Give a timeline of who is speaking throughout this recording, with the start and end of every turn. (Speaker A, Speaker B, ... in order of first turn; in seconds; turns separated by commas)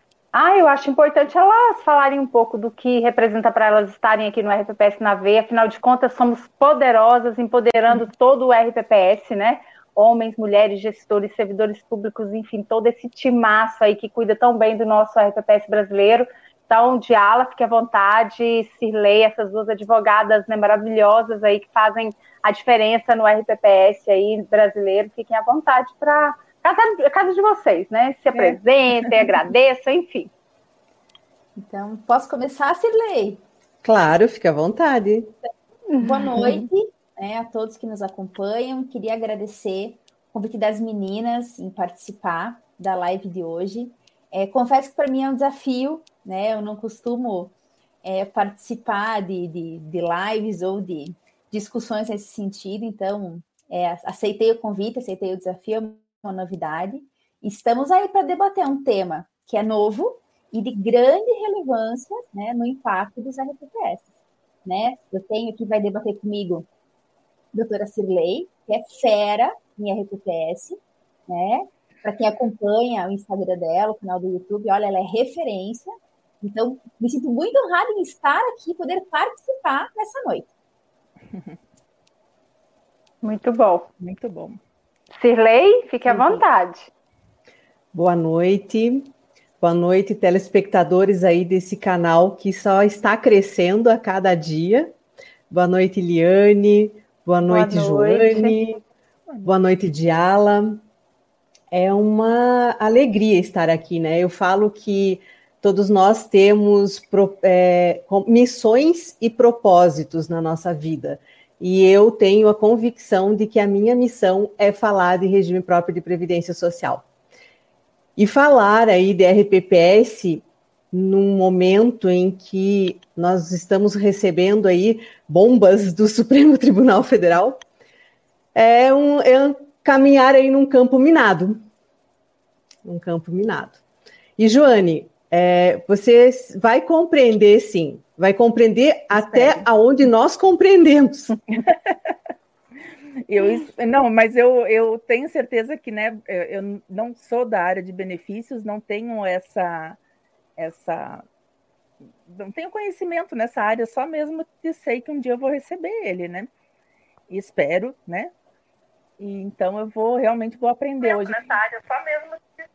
Speaker A: 0.3-30.3, Speaker B: 31.6-33.4, Speaker C: 33.8-35.3, Speaker B: 36.0-47.5, Speaker B: 48.0-64.1, Speaker B: 64.7-66.7, Speaker B: 67.5-80.5, Speaker A: 83.2-83.9, Speaker D: 84.0-84.6, Speaker A: 85.2-86.9, Speaker D: 86.1-86.4, Speaker C: 87.9-94.9, Speaker C: 95.5-98.8, Speaker A: 97.5-98.6, Speaker C: 99.4-100.8, Speaker C: 101.7-117.0, Speaker C: 118.2-127.6, Speaker C: 128.6-131.6, Speaker C: 132.8-133.8, Speaker C: 134.4-141.4, Speaker D: 139.1-139.7, Speaker D: 141.6-142.1, Speaker D: 143.3-150.0, Speaker D: 150.6-151.2, Speaker D: 152.3-156.5, Speaker D: 157.3-158.3, Speaker D: 159.2-162.4, Speaker A: 161.1-161.6